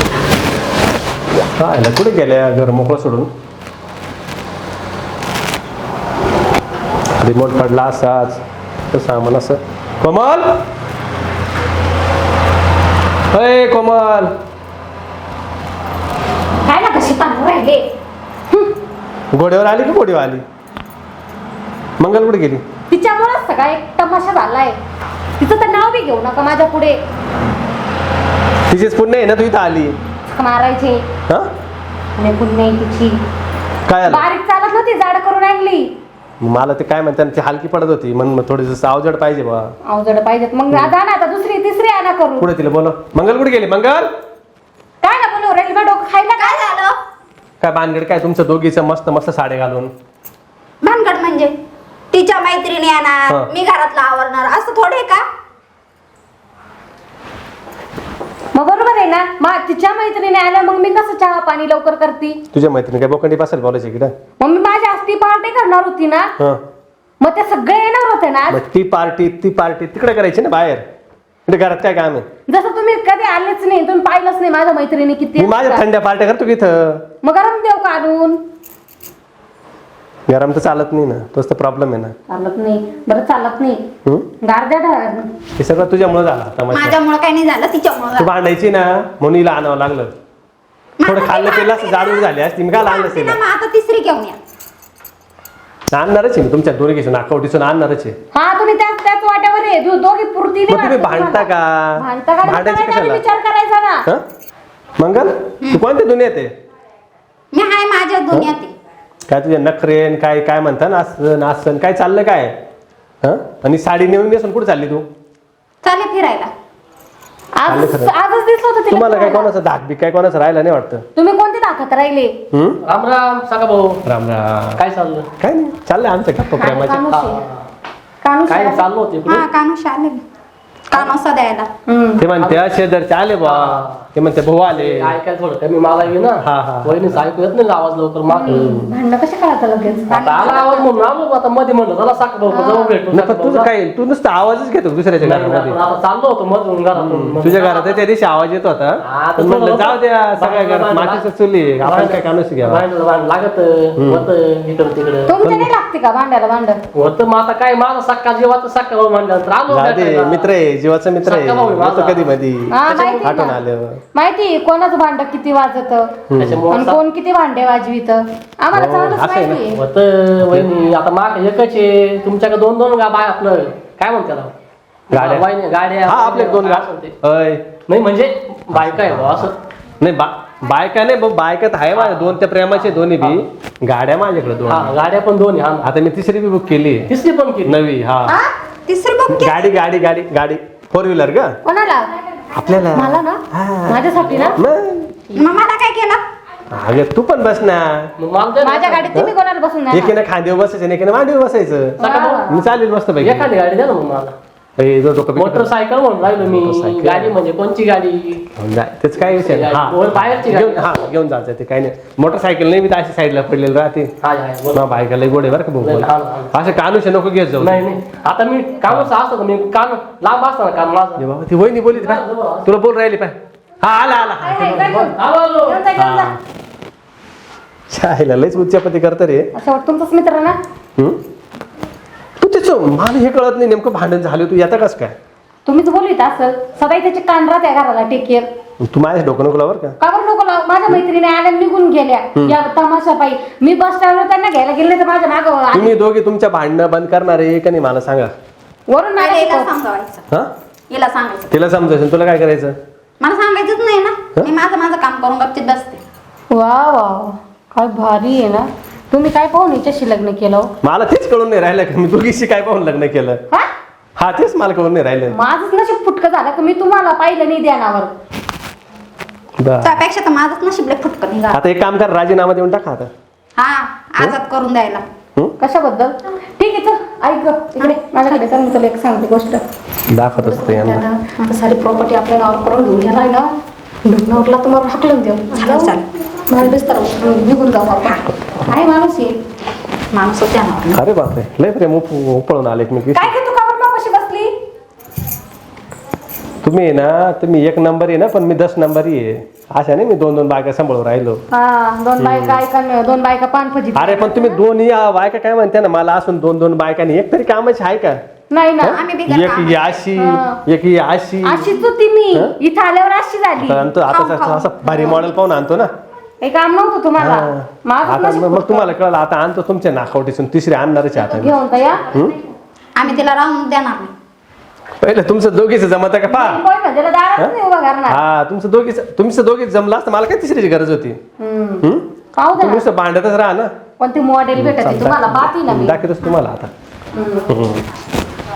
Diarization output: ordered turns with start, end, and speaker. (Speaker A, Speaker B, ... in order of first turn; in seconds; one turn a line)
Speaker A: 1.6-3.3
Speaker A: 7.2-10.6
Speaker A: 13.3-14.4
Speaker B: 16.6-17.8
Speaker A: 19.3-20.4
Speaker A: 22.0-22.6
Speaker B: 22.9-24.8
Speaker B: 25.4-27.0
Speaker A: 28.7-30.0
Speaker B: 30.3-31.0
Speaker B: 32.2-33.2
Speaker A: 33.9-34.3
Speaker B: 34.1-35.9
Speaker A: 36.4-39.7
Speaker B: 39.9-42.5
Speaker A: 42.4-44.1
Speaker B: 45.0-46.8
Speaker C: 46.4-47.0
Speaker A: 47.6-49.9
Speaker C: 50.8-51.5
Speaker C: 52.1-55.2
Speaker B: 58.5-62.4
Speaker A: 62.5-64.1
Speaker B: 64.4-66.3
Speaker B: 67.2-68.6
Speaker A: 68.5-70.8
Speaker A: 71.5-72.2
Speaker B: 72.5-75.8
Speaker A: 75.4-77.0
Speaker B: 77.2-78.4
Speaker A: 80.3-82.1
Speaker B: 82.3-83.8
Speaker B: 84.4-85.3
Speaker A: 85.6-87.0
Speaker C: 86.7-88.3
Speaker A: 88.2-90.1
Speaker C: 91.0-94.4
Speaker A: 91.0-93.4
Speaker A: 95.9-98.2
Speaker B: 98.3-104.0
Speaker A: 100.7-103.2
Speaker A: 105.0-106.5
Speaker C: 107.5-108.7
Speaker A: 109.3-112.6
Speaker A: 113.2-115.0
Speaker C: 115.8-116.5
Speaker B: 117.6-119.5
Speaker A: 117.7-118.1
Speaker A: 118.9-121.0
Speaker B: 121.2-122.3
Speaker A: 122.5-122.8
Speaker D: 122.8-124.0
Speaker A: 124.0-124.8
Speaker D: 124.8-125.3
Speaker A: 125.4-127.1
Speaker B: 126.5-127.4
Speaker D: 127.0-127.5
Speaker B: 128.2-128.8
Speaker D: 128.5-129.5
Speaker C: 129.2-130.2
Speaker C: 130.9-131.7
Speaker B: 131.9-132.2
Speaker A: 132.2-135.1
Speaker D: 132.3-132.6
Speaker D: 133.4-134.0
Speaker D: 134.7-138.7
Speaker A: 136.4-137.2
Speaker B: 138.3-140.8
Speaker A: 138.5-138.9
Speaker C: 140.1-140.8
Speaker D: 140.2-143.7
Speaker B: 142.5-142.9
Speaker A: 143.1-145.8
Speaker D: 145.2-148.0
Speaker A: 146.9-152.8
Speaker D: 149.0-151.2
Speaker D: 151.8-155.4
Speaker A: 154.0-154.3
Speaker B: 155.3-156.8
Speaker A: 155.4-155.7
Speaker D: 156.9-160.5
Speaker A: 159.7-164.0
Speaker D: 161.2-162.3
Speaker B: 162.7-163.6
Speaker D: 162.9-163.3
Speaker B: 164.1-166.1
Speaker A: 166.3-166.6
Speaker D: 166.4-167.0
Speaker B: 166.7-169.8
Speaker A: 168.7-169.6
Speaker D: 169.7-174.5
Speaker D: 175.1-177.1
Speaker A: 175.1-175.5
Speaker A: 176.0-177.7
Speaker D: 177.9-179.5
Speaker A: 178.7-184.9
Speaker D: 181.9-182.3
Speaker D: 182.9-183.4
Speaker D: 184.7-185.9
Speaker A: 185.8-187.1
Speaker D: 187.1-187.8
Speaker A: 187.6-188.4
Speaker C: 188.9-189.7
Speaker A: 189.3-191.6
Speaker B: 191.6-192.1
Speaker A: 192.5-195.1
Speaker B: 192.9-194.6
Speaker D: 194.2-194.6
Speaker C: 195.3-196.2
Speaker A: 196.7-198.1
Speaker D: 198.2-199.2
Speaker B: 198.6-200.2
Speaker A: 199.9-203.5
Speaker B: 202.0-202.5
Speaker D: 202.0-202.5
Speaker D: 203.2-204.3
Speaker A: 204.8-205.7
Speaker D: 205.3-208.4
Speaker A: 206.3-207.3
Speaker A: 208.6-214.1
Speaker D: 209.3-210.8
Speaker D: 214.2-214.8
Speaker A: 214.7-217.9
Speaker D: 215.8-216.5
Speaker D: 217.6-221.2
Speaker A: 221.2-224.8
Speaker D: 221.9-222.7
Speaker B: 224.2-226.3
Speaker D: 224.6-225.8
Speaker A: 226.0-226.4
Speaker A: 227.9-229.5
Speaker B: 229.5-230.6
Speaker A: 232.4-235.2
Speaker B: 235.7-238.5
Speaker A: 238.8-240.0
Speaker B: 240.0-245.9
Speaker A: 245.7-248.3
Speaker B: 248.9-249.7
Speaker C: 249.2-250.2
Speaker C: 250.9-251.5
Speaker A: 251.5-252.8
Speaker C: 253.2-256.0
Speaker B: 256.5-260.7
Speaker A: 260.8-263.4
Speaker A: 264.2-265.4
Speaker B: 265.3-268.1
Speaker A: 269.6-270.0
Speaker C: 269.8-271.6
Speaker A: 271.5-273.1
Speaker C: 273.6-275.0
Speaker B: 275.6-279.6
Speaker C: 277.8-278.4
Speaker A: 280.1-281.0
Speaker B: 280.4-283.5
Speaker B: 284.0-286.0
Speaker C: 285.5-286.0
Speaker B: 286.5-288.2
Speaker C: 288.0-289.3
Speaker B: 288.9-289.2
Speaker C: 290.1-291.0
Speaker A: 290.9-293.3
Speaker B: 293.1-294.5
Speaker A: 296.6-301.4
Speaker B: 301.5-304.6
Speaker A: 302.2-302.6
Speaker A: 303.9-308.2
Speaker B: 308.5-309.0
Speaker A: 308.8-311.8
Speaker C: 308.8-310.0
Speaker B: 310.1-310.6
Speaker B: 311.4-313.9
Speaker A: 313.6-315.9
Speaker C: 314.1-315.3
Speaker B: 316.4-318.9
Speaker A: 317.2-321.6
Speaker B: 321.3-322.1
Speaker A: 322.1-322.4
Speaker C: 322.9-324.1
Speaker A: 325.0-326.6
Speaker B: 326.3-328.2
Speaker A: 328.1-331.2
Speaker B: 331.4-332.9
Speaker A: 331.8-333.7
Speaker B: 334.0-336.0
Speaker A: 334.6-336.7
Speaker B: 337.1-337.5
Speaker A: 337.5-337.8